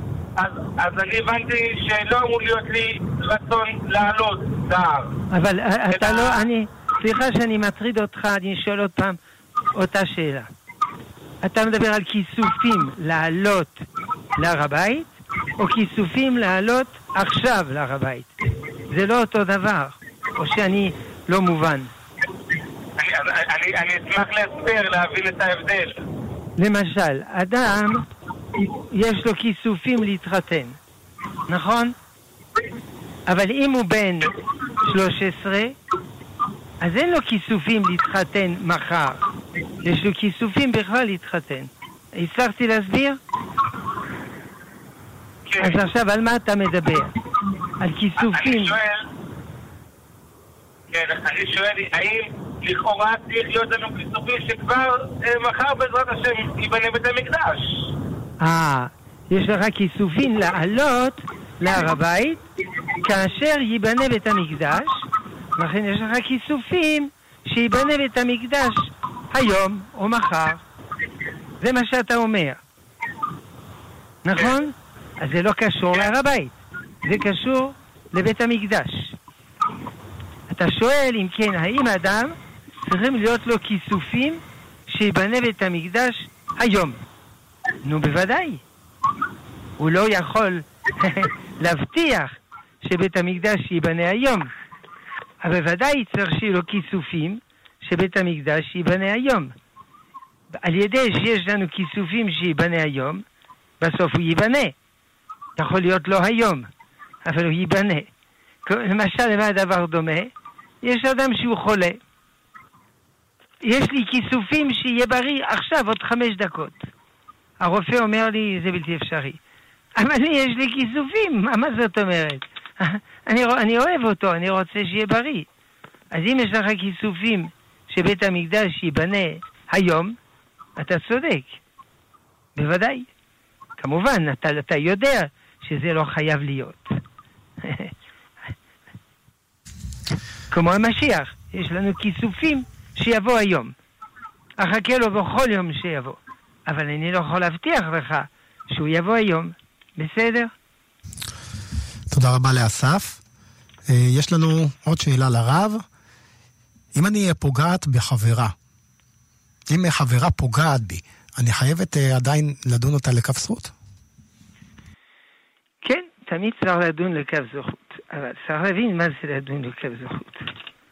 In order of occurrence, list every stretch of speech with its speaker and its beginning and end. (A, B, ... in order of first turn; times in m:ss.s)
0:00.4-0:05.2 A
0:05.3-0:09.2 B
0:05.9-0:06.5 A
0:09.7-0:10.5 B
0:11.4-0:13.8 B
0:14.4-0:18.3 B
0:18.9-0:21.9 B
0:23.0-0:26.0 A
0:26.6-0:28.0 B
0:28.6-0:30.8 B
0:31.5-0:32.0 B
0:33.3-0:35.8 B
0:36.8-0:39.3 B
0:39.8-0:43.2 B
0:45.5-0:45.8 A
0:45.6-0:47.1 B
0:47.8-0:48.8 B
0:48.2-0:49.1 A
0:50.9-0:57.9 A
0:58.4-1:02.4 B
1:03.0-1:10.6 B
1:11.6-1:12.6 B
1:14.2-1:19.2 B
1:20.5-1:27.0 B
1:27.8-1:28.6 B
1:29.8-1:34.5 B
1:35.4-1:39.5 B
1:40.6-1:43.2 B
1:43.8-1:44.8 B
1:45.6-1:46.7 B
1:47.2-1:48.1 B
1:48.7-1:50.3 B
1:50.8-1:52.0 B
1:53.6-1:56.9 B
1:57.6-1:59.4 B
2:00.0-2:05.5 B
2:06.1-2:10.2 B
2:10.8-2:11.6 B
2:12.6-2:13.1 B
2:13.8-2:17.0 B
2:17.6-2:17.9 B
2:20.5-2:23.7 B
2:24.6-2:30.5 B
2:32.1-2:33.2 C
2:33.9-2:35.8 C
2:36.9-2:38.6 C
2:39.7-2:43.7 C
2:45.8-2:50.5 B